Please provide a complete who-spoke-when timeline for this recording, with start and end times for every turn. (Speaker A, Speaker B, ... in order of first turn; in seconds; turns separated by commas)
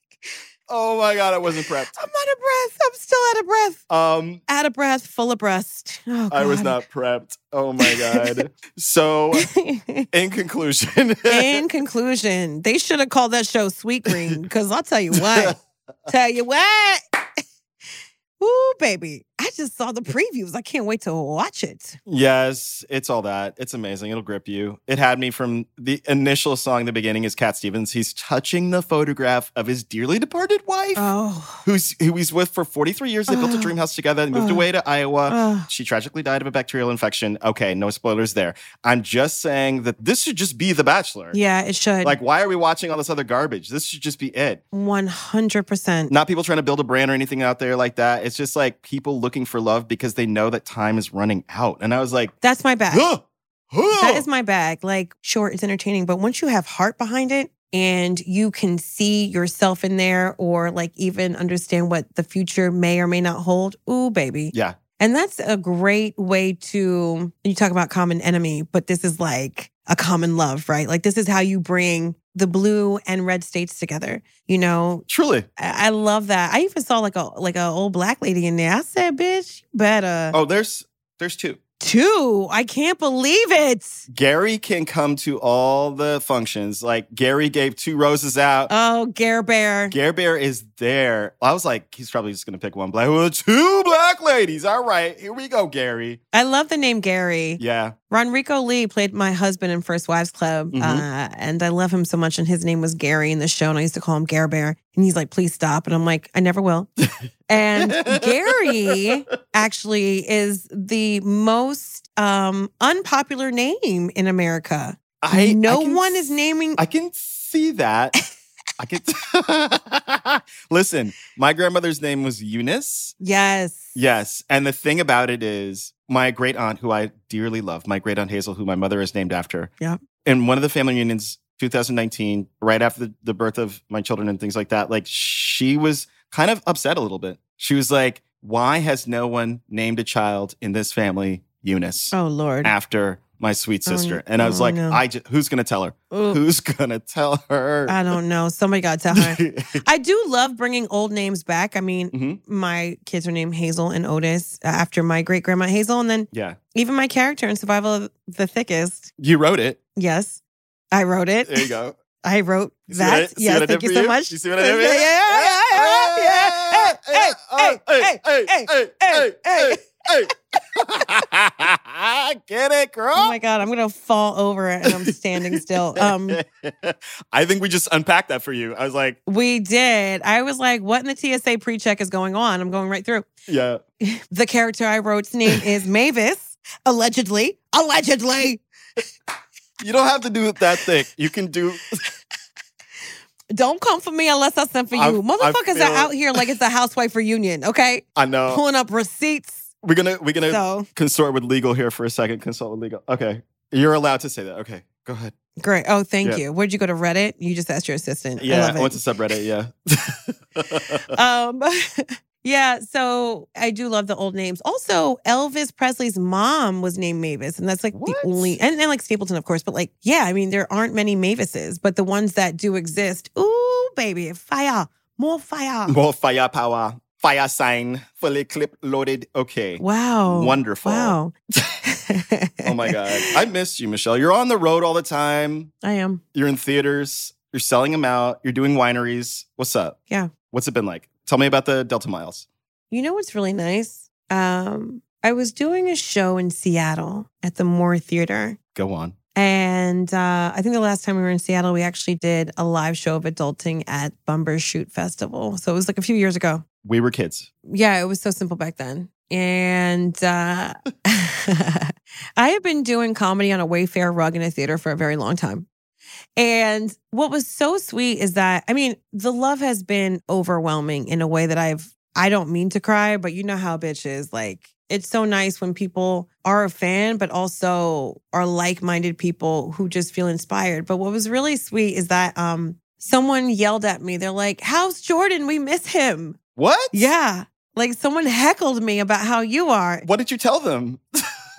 Speaker A: 0.7-1.9, Speaker B: 1.9-3.8, Speaker A: 3.9-4.4, Speaker B: 4.5-6.8, Speaker A: 6.3-9.5, Speaker B: 7.8-8.4, Speaker B: 9.3-10.1, Speaker A: 10.1-11.6, Speaker B: 11.3-15.6, Speaker A: 14.1-14.3, Speaker A: 15.1-16.1, Speaker B: 16.1-17.0, Speaker B: 18.4-22.0, Speaker A: 22.1-31.1, Speaker B: 30.9-31.6, Speaker A: 31.6-41.4, Speaker B: 33.3-33.7, Speaker B: 34.3-34.6, Speaker B: 35.3-35.7, Speaker B: 41.3-42.2, Speaker A: 42.0-44.6, Speaker B: 44.7-46.1, Speaker A: 46.1-52.3, Speaker B: 52.4-53.1, Speaker A: 52.9-54.2, Speaker B: 53.9-75.0, Speaker A: 64.5-64.8, Speaker A: 75.1-75.5, Speaker B: 75.6-80.4, Speaker A: 80.3-81.6, Speaker B: 81.8-84.0, Speaker A: 84.1-88.7, Speaker B: 88.7-89.9, Speaker A: 89.9-96.2, Speaker B: 96.3-106.9, Speaker A: 97.6-97.9, Speaker A: 100.7-101.0, Speaker A: 107.0-109.0, Speaker B: 107.5-116.8, Speaker A: 115.2-118.2, Speaker A: 118.8-123.2, Speaker B: 123.2-123.9, Speaker A: 123.9-129.7, Speaker A: 130.2-148.1, Speaker B: 142.1-142.7, Speaker B: 143.8-145.0, Speaker B: 146.1-146.4, Speaker B: 147.9-159.1, Speaker A: 149.1-149.8, Speaker A: 152.1-152.4, Speaker A: 156.3-156.6, Speaker A: 159.2-159.8, Speaker B: 159.9-160.4, Speaker B: 160.9-170.0, Speaker A: 161.4-161.9, Speaker A: 162.9-173.4, Speaker B: 173.1-176.4, Speaker A: 174.8-179.2, Speaker B: 179.3-183.3, Speaker A: 183.5-183.8, Speaker B: 184.0-188.6, Speaker A: 189.8-192.0, Speaker B: 193.5-199.7, Speaker A: 194.9-196.4, Speaker A: 198.2-198.6, Speaker A: 199.8-205.3, Speaker B: 200.5-200.9, Speaker B: 205.6-209.0, Speaker A: 208.4-211.1, Speaker B: 211.1-226.0, Speaker A: 217.9-218.6, Speaker A: 225.9-231.2, Speaker B: 229.8-233.3, Speaker A: 232.6-235.7, Speaker B: 235.8-236.2, Speaker A: 236.3-240.0, Speaker A: 240.5-242.4, Speaker B: 242.9-248.6, Speaker A: 248.7-249.1, Speaker B: 249.3-256.6, Speaker A: 256.8-257.5, Speaker B: 257.7-265.7, Speaker B: 266.4-286.4, Speaker A: 286.6-287.1, Speaker B: 286.9-290.1, Speaker A: 290.0-291.0